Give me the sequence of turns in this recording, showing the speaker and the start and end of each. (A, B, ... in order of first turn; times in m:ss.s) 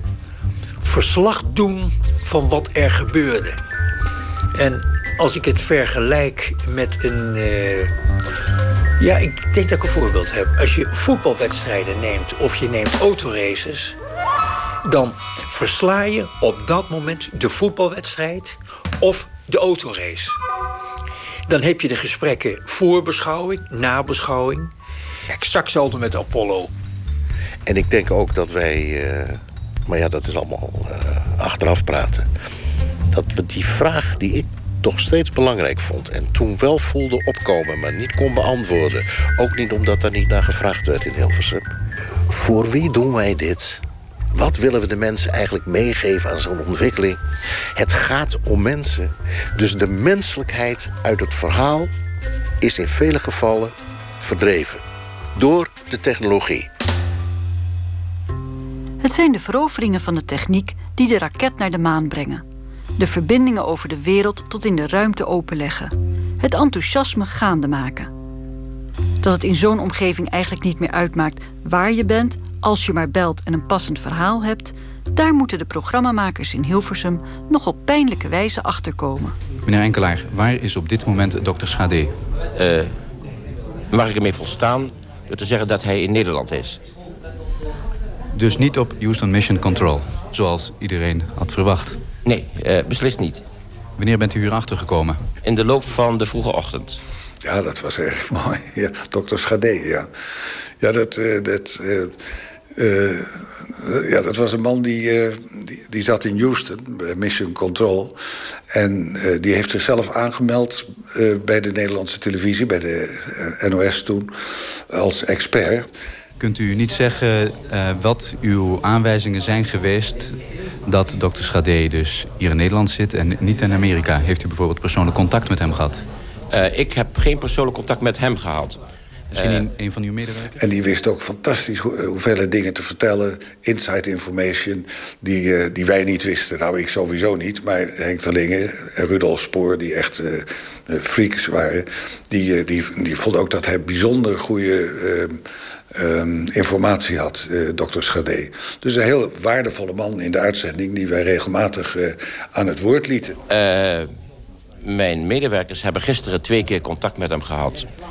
0:00.8-0:03.6 A
0:04.6-0:07.9 A
0:09.0-0:14.0 A
0:14.8-0:20.4 A
0:21.5-0:24.7 A
0:25.3-0:26.7 A
0:27.7-0:32.3 B
0:33.1-0:41.6 B
0:42.3-0:47.2 B
0:47.8-0:51.9 B
0:52.6-0:54.8 B
0:55.4-0:56.7 B
0:59.0-1:02.4 C
1:03.0-1:08.1 C
1:09.2-1:19.4 C
1:19.7-1:22.2 D
1:22.6-1:22.9 E
1:23.9-1:26.8 E
1:28.3-1:32.0 D
1:32.2-1:33.4 E
1:34.0-1:35.2 D
1:35.4-1:37.0 E
1:37.4-1:40.1 F
1:40.8-1:42.1 F
1:42.8-1:48.2 F
1:48.7-1:54.3 F
1:54.9-1:55.9 F
1:56.4-2:06.0 D
2:06.5-2:08.8 E
2:09.3-2:10.6 D
2:09.4-2:09.7 E
2:10.6-2:25.4 F
2:25.9-2:33.4 F
2:33.5-2:34.1 E
2:34.8-2:37.9 E